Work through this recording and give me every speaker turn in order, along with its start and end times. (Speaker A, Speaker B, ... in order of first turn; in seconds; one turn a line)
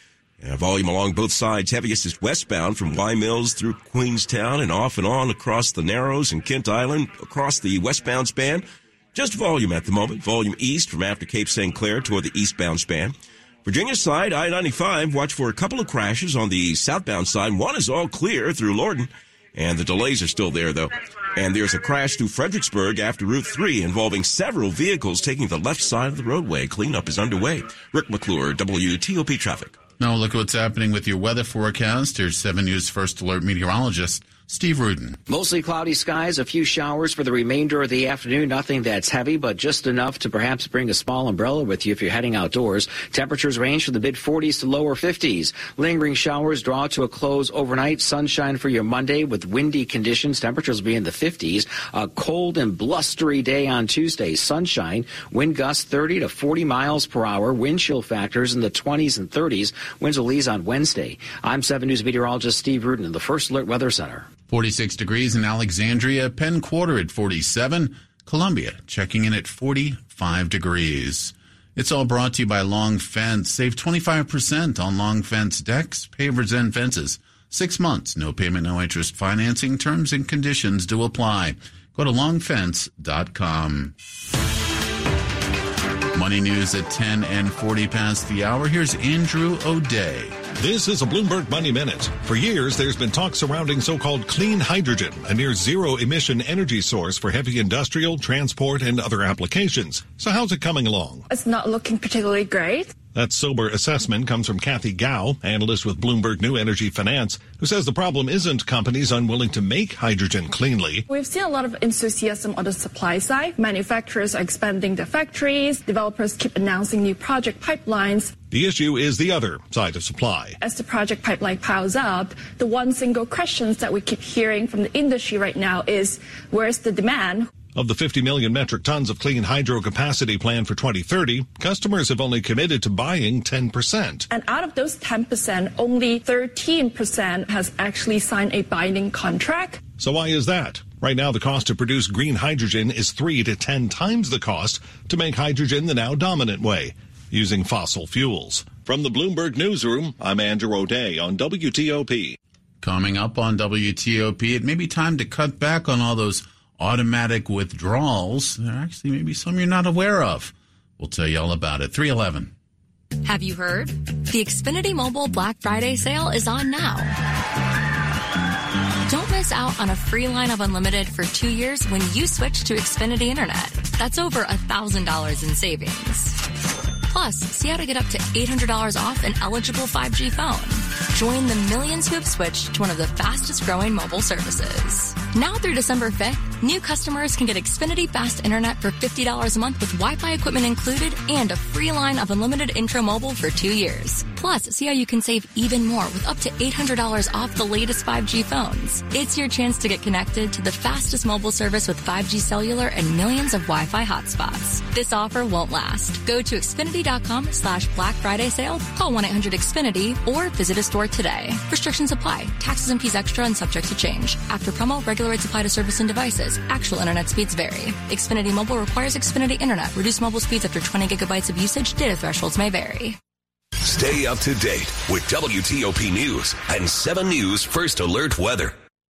Speaker A: 0.4-29.8
Speaker B: 30.0-35.2
Speaker C: 35.3-64.2
Speaker B: 64.5-83.9
Speaker B: 86.1-90.4
Speaker D: 90.6-101.2
Speaker E: 101.3-102.9
Speaker D: 103.1-111.0
Speaker E: 111.1-118.3
Speaker D: 118.5-120.6
Speaker E: 120.6-127.5
Speaker D: 127.7-134.3
Speaker E: 134.3-139.8
Speaker D: 140.0-152.3
Speaker B: 152.8-162.5
Speaker F: 163.2-167.1
Speaker F: 169.1-176.4
Speaker F: 177.1-223.2
Speaker G: 223.8-228.7